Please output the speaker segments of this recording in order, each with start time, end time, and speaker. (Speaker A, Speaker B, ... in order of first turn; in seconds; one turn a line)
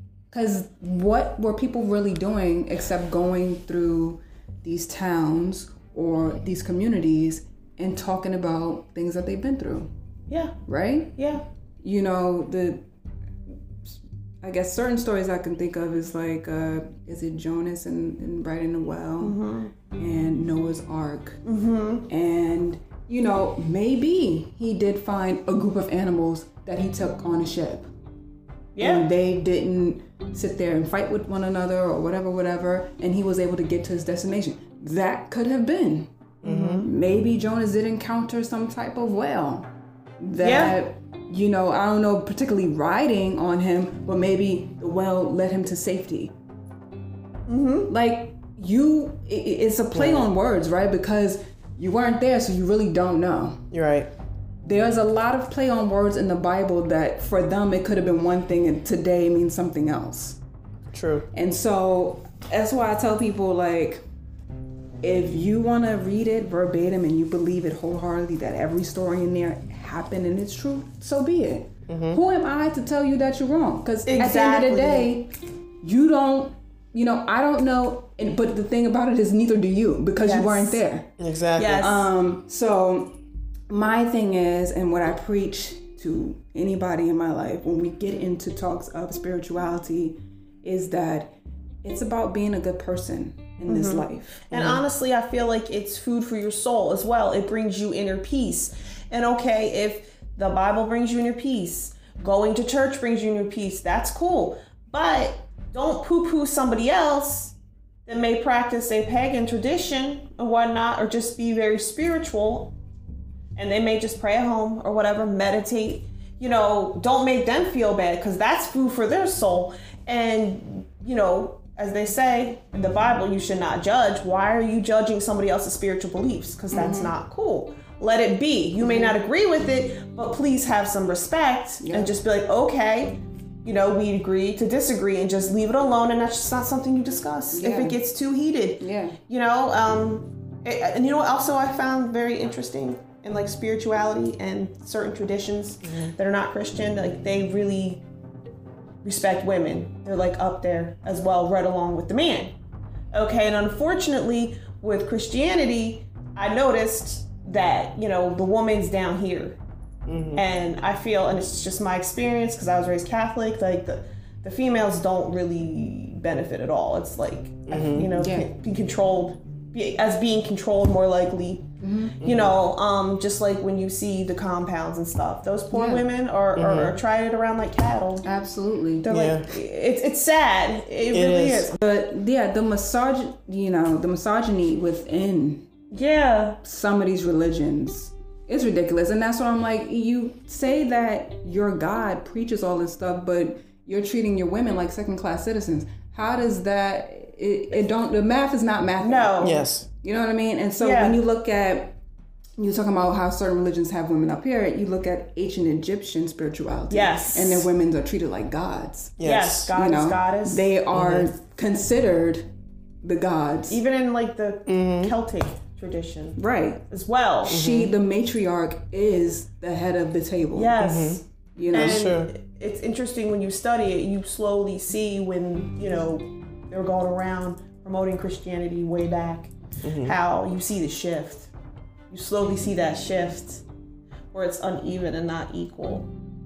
Speaker A: 0.3-9.9
Speaker B: 10.3-10.5
Speaker A: 10.7-11.2
Speaker B: 11.2-11.4
Speaker A: 11.8-12.8
Speaker A: 13.9-19.4
Speaker B: 19.2-19.7
Speaker A: 19.9-21.4
Speaker B: 21.4-22.1
Speaker A: 22.1-27.9
Speaker B: 28.7-29.1
Speaker A: 28.8-36.1
Speaker C: 36.4-36.8
Speaker B: 36.4-36.9
Speaker A: 36.7-46.3
Speaker B: 40.4-40.8
Speaker B: 47.5-47.9
Speaker A: 47.9-53.7
Speaker C: 49.9-50.3
Speaker C: 53.7-54.1
Speaker A: 54.6-60.4
Speaker C: 60.9-61.3
Speaker A: 61.3-64.0
Speaker A: 65.0-81.1
Speaker C: 71.9-72.2
Speaker B: 74.1-75.1
Speaker B: 80.2-80.8
Speaker C: 81.2-81.8
Speaker B: 81.6-82.1
Speaker A: 81.7-91.3
Speaker A: 91.8-94.7
Speaker B: 93.7-112.7
Speaker C: 94.5-94.8
Speaker B: 113.5-148.0
Speaker A: 126.7-127.1
Speaker A: 128.8-129.2
Speaker A: 131.8-132.1
Speaker A: 137.5-138.0
Speaker A: 138.8-139.2
Speaker C: 145.8-146.1
Speaker B: 149.0-152.5
Speaker B: 153.1-159.6
Speaker C: 160.1-160.4
Speaker B: 160.3-171.7
Speaker C: 167.7-168.1
Speaker A: 168.1-168.5
Speaker A: 171.8-172.2
Speaker B: 172.2-178.2
Speaker C: 172.2-172.6
Speaker A: 175.7-176.1
Speaker C: 176.5-177.0
Speaker A: 178.2-179.1
Speaker B: 179.0-181.7
Speaker C: 179.1-179.5
Speaker C: 181.1-181.8
Speaker A: 181.8-185.7
Speaker B: 185.9-186.6
Speaker A: 186.6-202.0
Speaker B: 199.0-199.6
Speaker C: 199.4-199.9
Speaker B: 200.8-201.2
Speaker A: 202.6-209.2
Speaker B: 206.9-207.7
Speaker C: 209.2-209.7
Speaker B: 209.2-210.7
Speaker A: 209.7-212.5
Speaker C: 210.9-211.3
Speaker A: 213.0-213.8
Speaker B: 213.7-216.4
Speaker C: 214.7-215.1
Speaker A: 216.4-216.8
Speaker B: 216.9-217.7
Speaker C: 217.4-217.9
Speaker A: 217.4-220.8
Speaker B: 220.5-231.5
Speaker C: 220.8-221.2
Speaker A: 221.6-222.0
Speaker C: 221.7-222.3
Speaker C: 229.8-230.2
Speaker B: 232.1-233.6
Speaker B: 234.3-236.1